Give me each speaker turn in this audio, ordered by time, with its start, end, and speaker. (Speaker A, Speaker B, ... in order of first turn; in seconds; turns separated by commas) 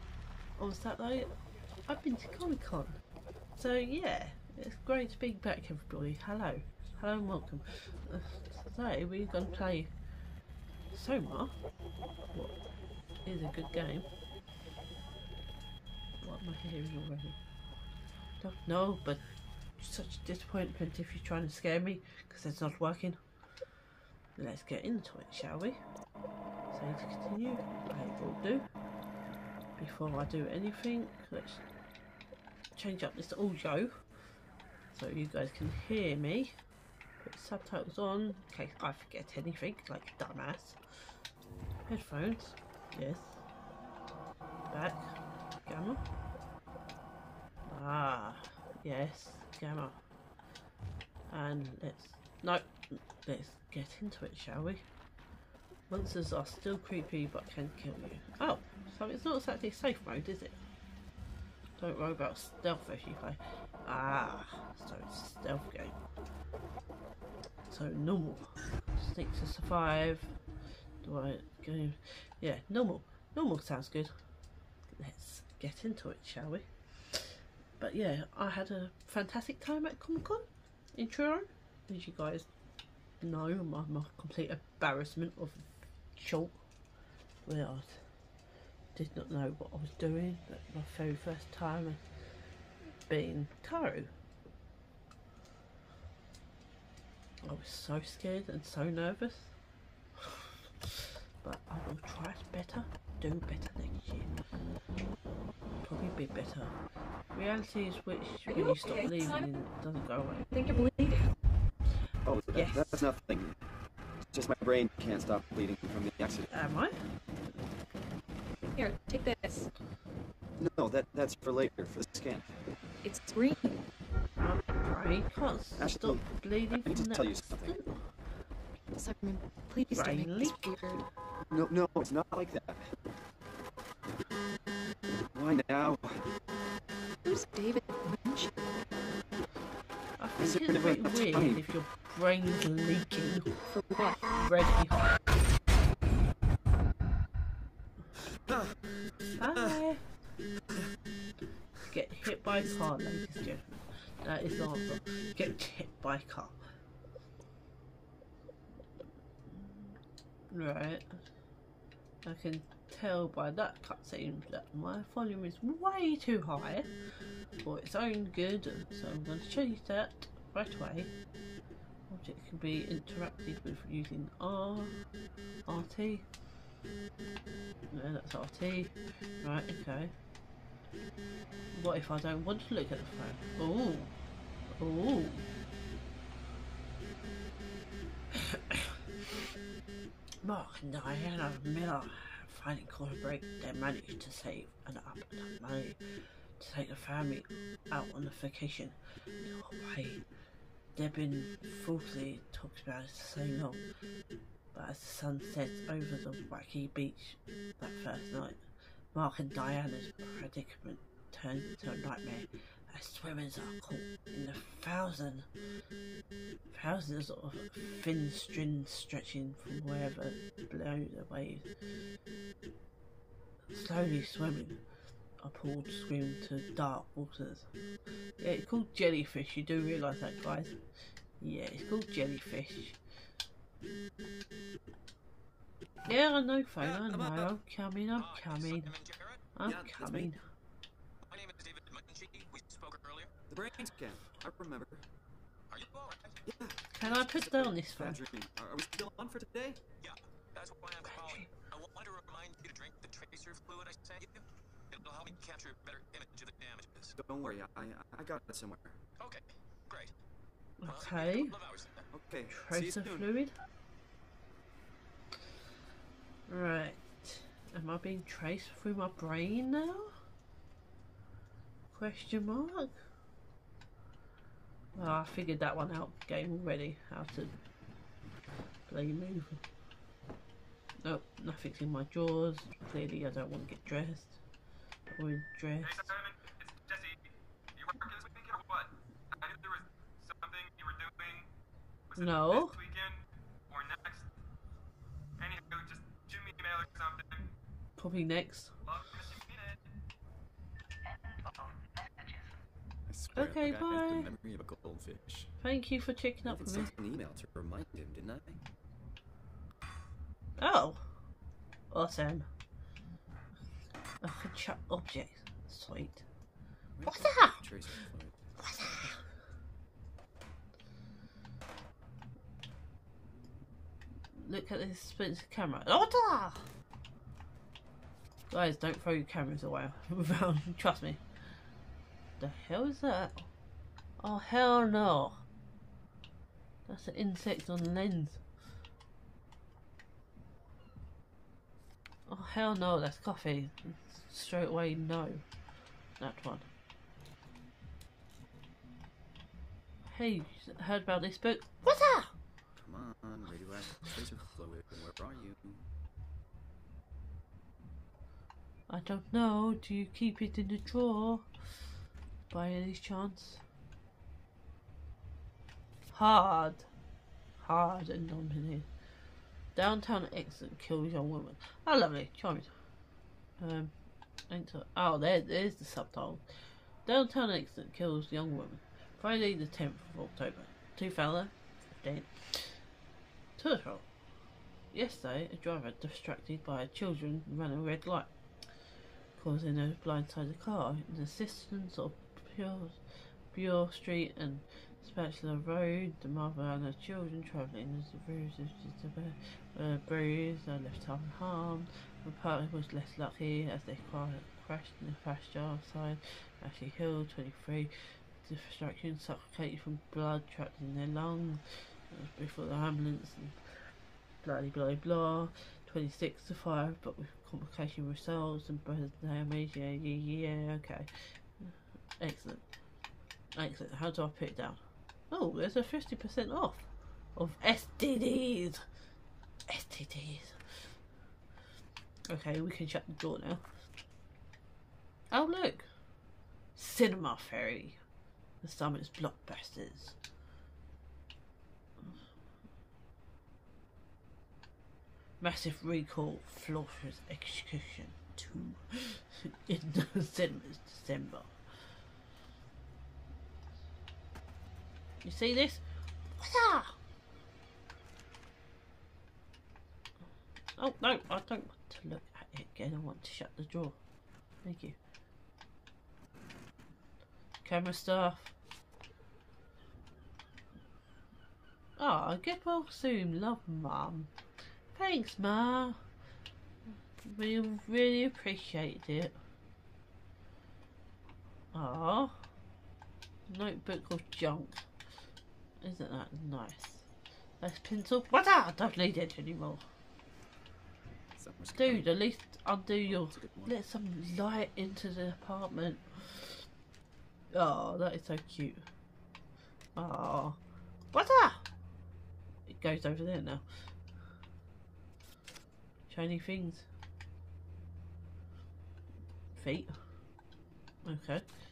Speaker A: 0.6-1.3, Speaker A: 1.9-3.0, Speaker A: 3.5-9.9, Speaker A: 10.9-11.5, Speaker A: 13.2-14.1, Speaker A: 16.2-17.4, Speaker A: 18.4-19.2, Speaker A: 19.8-23.2, Speaker A: 24.4-25.8, Speaker A: 26.7-28.6, Speaker A: 29.8-31.6, Speaker A: 32.8-34.0, Speaker A: 34.9-36.5, Speaker A: 37.2-41.1, Speaker A: 41.9-43.4, Speaker A: 44.7-46.0, Speaker A: 47.6-50.0, Speaker A: 51.3-54.8, Speaker A: 55.9-60.6, Speaker A: 61.8-66.0, Speaker A: 67.7-70.3, Speaker A: 71.0-74.1, Speaker A: 75.0-82.5, Speaker A: 83.2-86.6, Speaker A: 87.4-88.0, Speaker A: 88.9-92.0, Speaker A: 93.1-94.1, Speaker A: 97.4-99.5, Speaker A: 100.2-104.3, Speaker A: 105.8-106.7, Speaker A: 107.3-110.5, Speaker B: 108.5-109.4, Speaker B: 110.5-111.3, Speaker C: 112.2-113.5, Speaker A: 112.5-113.1, Speaker C: 114.3-116.5, Speaker A: 116.5-117.0, Speaker B: 118.7-119.7, Speaker C: 120.6-122.5, Speaker B: 123.0-123.7, Speaker A: 124.4-128.0, Speaker C: 125.8-127.8, Speaker B: 128.9-131.0, Speaker A: 129.9-130.8, Speaker C: 131.5-132.8, Speaker C: 135.3-136.3, Speaker B: 137.2-138.5, Speaker A: 140.2-143.6, Speaker C: 140.4-141.6, Speaker B: 143.8-144.2, Speaker A: 144.2-145.1, Speaker A: 149.3-150.0, Speaker A: 151.9-156.6, Speaker A: 159.5-160.0, Speaker A: 160.5-161.2, Speaker A: 162.2-171.1, Speaker A: 172.1-175.0, Speaker A: 175.7-176.2, Speaker A: 177.9-180.1, Speaker A: 181.7-184.1, Speaker A: 184.8-185.4, Speaker A: 188.3-189.0, Speaker A: 190.4-200.2, Speaker A: 200.9-203.8, Speaker A: 204.7-208.6, Speaker A: 209.1-215.5, Speaker A: 216.7-221.7, Speaker A: 223.7-224.8, Speaker A: 225.4-227.7, Speaker A: 228.4-230.8, Speaker A: 231.4-233.0, Speaker A: 236.0-238.9, Speaker C: 236.8-237.5, Speaker D: 238.2-239.4, Speaker A: 239.6-240.4, Speaker C: 239.6-240.3, Speaker D: 241.3-243.3, Speaker C: 243.5-245.0, Speaker D: 245.7-246.4, Speaker C: 246.4-249.8, Speaker A: 246.9-248.2, Speaker D: 250.0-257.1, Speaker A: 251.1-251.5, Speaker C: 257.1-259.0, Speaker D: 259.2-260.1, Speaker A: 260.8-261.6, Speaker D: 260.8-262.0, Speaker C: 262.1-263.3, Speaker A: 262.5-263.5, Speaker A: 266.5-270.1, Speaker A: 271.9-273.0, Speaker A: 274.9-277.5, Speaker A: 278.9-279.6, Speaker A: 281.0-284.4, Speaker A: 285.1-286.2, Speaker D: 285.8-287.1, Speaker D: 287.7-291.4, Speaker D: 292.1-293.1, Speaker A: 292.2-292.8, Speaker D: 293.7-294.2, Speaker D: 295.4-297.4, Speaker A: 298.0-298.7, Speaker D: 298.9-299.8, Speaker C: 303.1-305.5, Speaker A: 303.3-304.3, Speaker A: 305.6-306.9, Speaker C: 306.4-308.6, Speaker A: 310.6-311.1, Speaker A: 311.9-312.5, Speaker A: 314.2-316.2, Speaker C: 317.0-319.1, Speaker A: 317.1-317.6, Speaker A: 318.6-319.2, Speaker A: 324.3-326.7, Speaker A: 328.5-331.2, Speaker A: 332.4-333.5, Speaker A: 334.2-335.4, Speaker A: 336.9-338.4, Speaker A: 342.3-345.4, Speaker A: 346.2-346.7, Speaker A: 350.1-352.3, Speaker C: 352.8-355.9, Speaker A: 358.9-361.5, Speaker A: 362.5-363.6, Speaker A: 366.1-366.9, Speaker A: 367.6-368.9, Speaker A: 369.7-372.7, Speaker A: 373.6-373.9, Speaker A: 374.5-376.4, Speaker A: 377.0-382.8, Speaker A: 383.6-384.1, Speaker A: 384.9-388.3, Speaker A: 389.4-413.6, Speaker A: 414.4-422.6, Speaker A: 423.5-428.9, Speaker A: 429.7-430.9, Speaker A: 432.3-433.6, Speaker A: 435.3-435.9, Speaker A: 436.8-438.0, Speaker A: 438.6-440.1, Speaker A: 445.4-451.5, Speaker A: 455.2-455.8, Speaker A: 456.4-457.0, Speaker A: 460.8-464.0, Speaker A: 464.6-465.0, Speaker A: 467.6-468.5, Speaker A: 472.0-474.3, Speaker A: 474.9-476.0, Speaker A: 477.2-479.4, Speaker A: 481.7-482.4, Speaker A: 483.5-484.9, Speaker A: 485.8-487.1, Speaker A: 487.6-489.9, Speaker C: 491.3-492.1, Speaker A: 491.8-496.6, Speaker C: 493.1-493.7, Speaker A: 497.5-498.8, Speaker A: 499.9-500.6, Speaker A: 501.1-501.7, Speaker A: 502.7-503.6, Speaker A: 506.1-506.9, Speaker A: 509.5-509.9, Speaker A: 511.0-511.4